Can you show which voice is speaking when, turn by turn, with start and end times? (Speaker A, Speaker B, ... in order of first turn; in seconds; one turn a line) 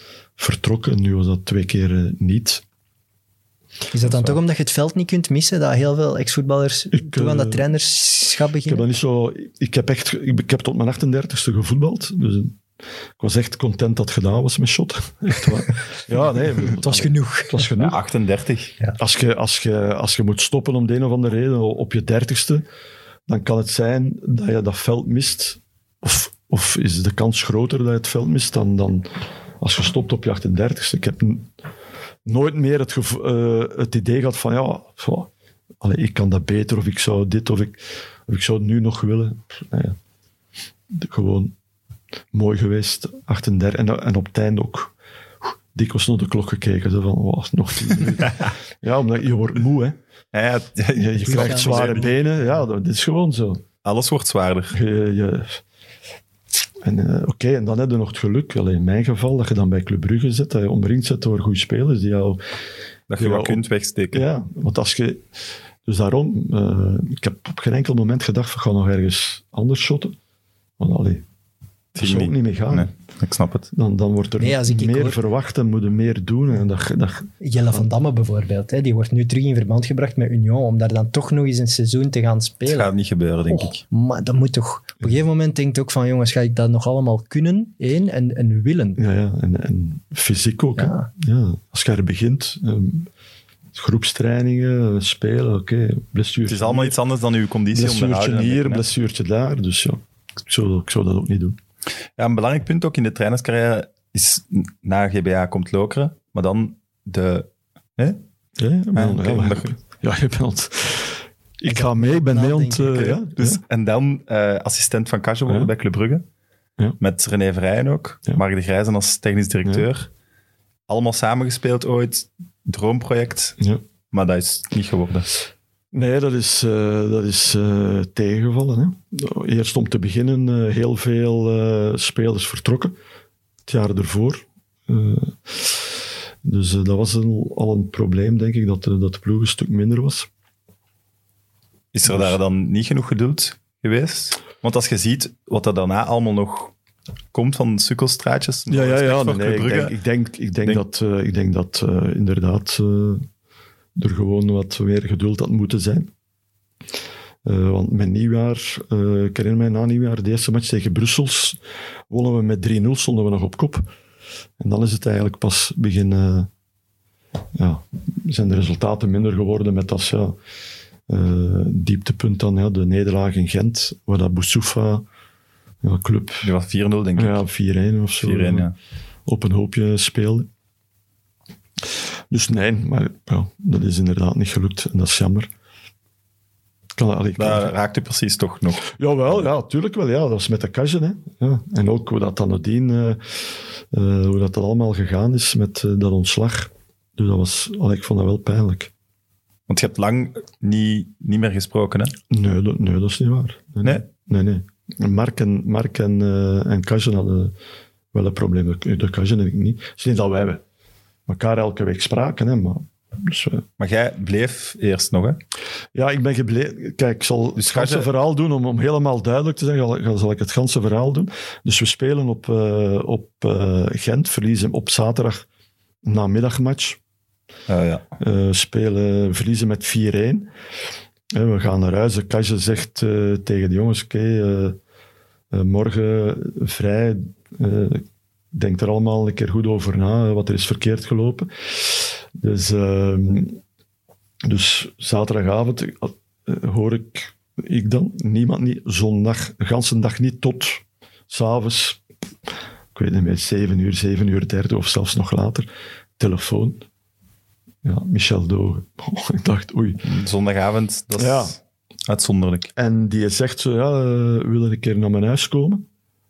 Speaker A: 0.4-2.6
Speaker B: 3.9-8.8
Speaker A: 4.1-4.4
Speaker A: 6.9-7.7
Speaker A: 8.6-12.6
Speaker A: 13.2-18.0
Speaker B: 16.6-17.7
Speaker C: 17.8-18.7
Speaker A: 19.0-22.6
Speaker A: 23.3-31.5
Speaker A: 32.2-35.3
Speaker A: 35.8-40.0
Speaker A: 40.9-41.5
Speaker A: 42.3-44.9
Speaker A: 45.7-50.0
Speaker C: 50.3-52.1
Speaker A: 50.9-53.6
Speaker B: 51.2-52.1
Speaker C: 53.8-54.8
Speaker A: 54.7-55.6
Speaker A: 56.8-62.4
Speaker C: 63.1-64.2
Speaker A: 63.1-65.3
Speaker A: 65.8-70.2
Speaker A: 70.8-71.2
Speaker A: 71.9-72.9
Speaker C: 72.0-73.7
Speaker A: 73.7-77.9
Speaker B: 74.4-75.2
Speaker B: 77.4-82.9
Speaker C: 82.7-83.8
Speaker B: 83.5-89.0
Speaker A: 89.0-93.1
Speaker B: 90.8-91.1
Speaker A: 93.7-97.0
Speaker C: 96.4-98.8
Speaker A: 97.7-101.6
Speaker C: 102.2-108.2
Speaker A: 108.6-113.6
Speaker C: 108.9-109.7
Speaker B: 111.7-113.1
Speaker C: 112.9-116.2
Speaker C: 117.0-120.1
Speaker C: 120.9-123.6
Speaker C: 124.1-125.3
Speaker A: 125.9-132.9
Speaker A: 133.7-140.3
Speaker C: 141.9-146.7
Speaker A: 142.1-142.3
Speaker C: 147.3-150.0
Speaker A: 148.7-153.2
Speaker A: 153.9-156.1
Speaker A: 157.4-161.6
Speaker A: 162.1-163.9
Speaker A: 164.6-166.5
Speaker A: 167.5-170.4
Speaker A: 171.1-175.0
Speaker A: 175.8-176.5
Speaker C: 176.4-177.4
Speaker A: 177.2-178.7
Speaker C: 178.2-178.7
Speaker A: 179.2-180.5
Speaker A: 182.3-185.5
Speaker A: 186.9-187.7
Speaker C: 187.4-188.8
Speaker A: 188.8-198.9
Speaker C: 199.7-202.1
Speaker A: 202.3-207.5
Speaker A: 208.1-210.6
Speaker A: 211.3-213.6
Speaker C: 213.8-215.4
Speaker A: 215.9-225.4
Speaker C: 217.6-218.1
Speaker A: 226.0-227.0
Speaker C: 227.7-228.0
Speaker A: 228.2-230.5
Speaker A: 231.3-234.8
Speaker A: 235.5-243.6
Speaker A: 244.4-252.0
Speaker A: 252.9-256.8
Speaker A: 257.8-260.0
Speaker C: 260.0-262.7
Speaker A: 261.1-261.6
Speaker A: 262.8-265.9